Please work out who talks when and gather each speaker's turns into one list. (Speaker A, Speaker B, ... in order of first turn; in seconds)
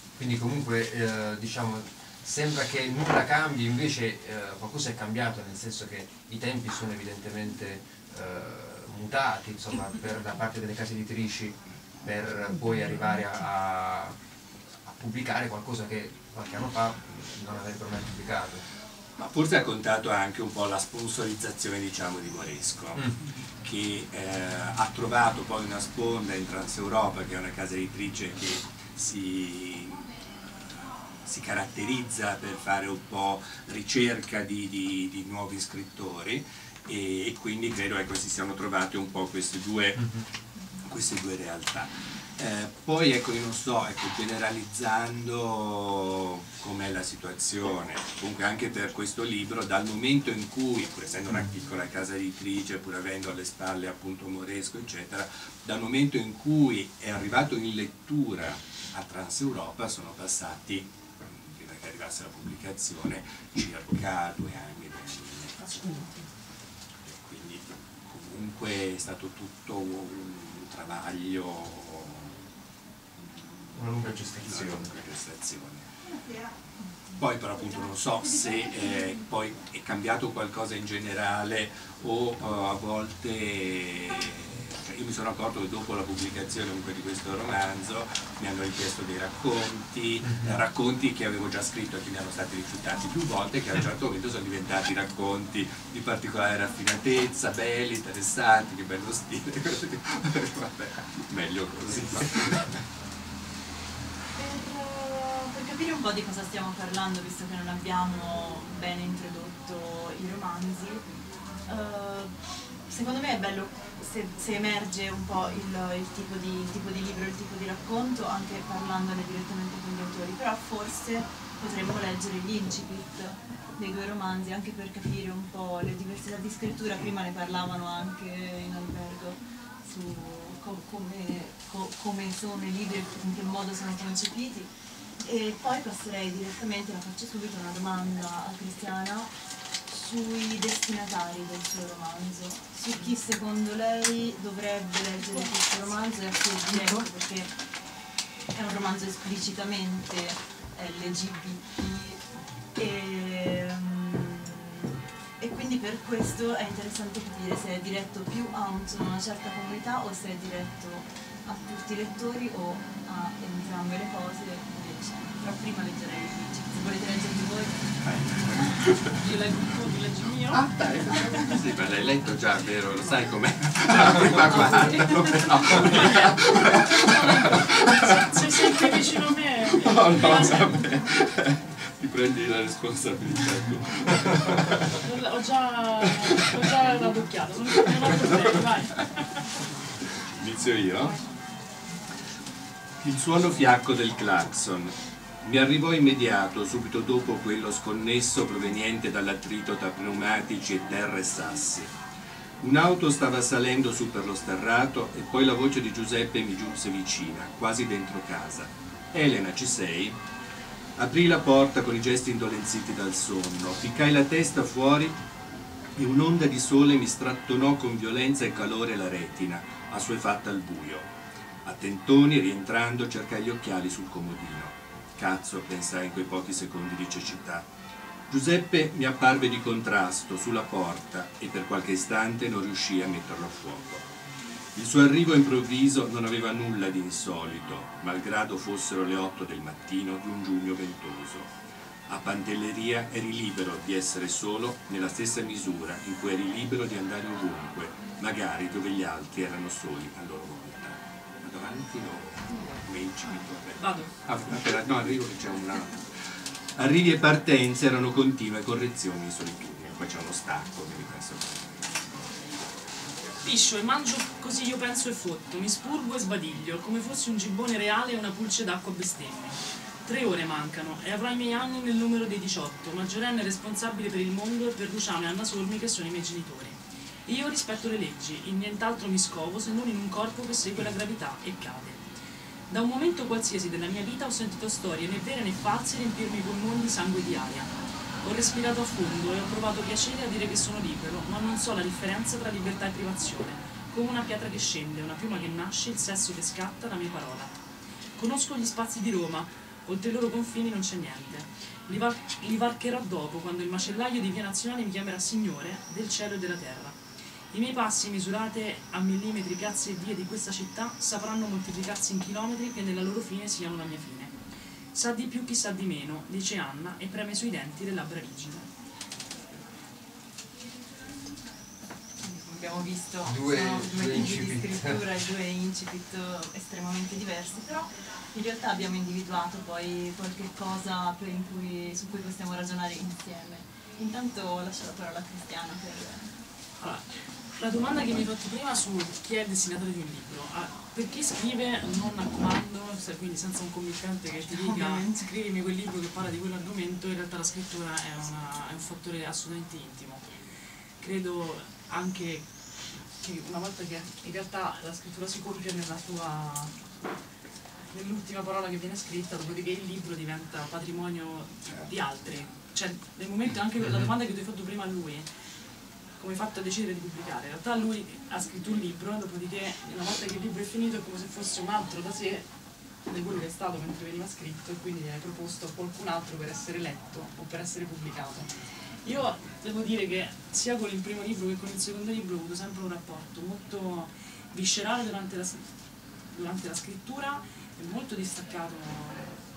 Speaker A: 0.2-14.2, 14.8-18.6, 73.7-74.9, 90.3-90.6, 323.2-325.0
Speaker B: 19.2-30.1, 30.6-40.1, 40.8-65.8, 67.0-72.4, 74.1-75.9, 77.2-102.8, 168.0-169.2, 170.5-178.9, 179.8-185.0, 188.3-189.0, 190.1-191.2, 193.0-201.9, 202.6-210.2, 211.0-215.2, 215.9-221.1, 221.6-227.7, 228.3-234.0, 234.7-241.5, 242.1-256.1, 256.8-261.9
Speaker C: 65.6-66.3, 169.1-170.6, 175.8-180.8, 184.9-189.4, 253.8-254.1, 263.4-282.1, 282.7-287.7, 288.2-297.5, 298.1-307.0, 307.5-314.4, 314.9-318.7, 336.8-350.3, 351.0-356.8, 357.9-365.3, 366.2-372.5, 373.0-378.5, 379.0-385.7, 386.3-389.4
Speaker D: 104.3-111.0, 111.7-112.3, 112.9-134.7, 135.2-139.3, 139.8-147.5, 148.5-152.2, 152.7-154.9, 155.4-167.8, 322.2-336.3, 344.5-345.2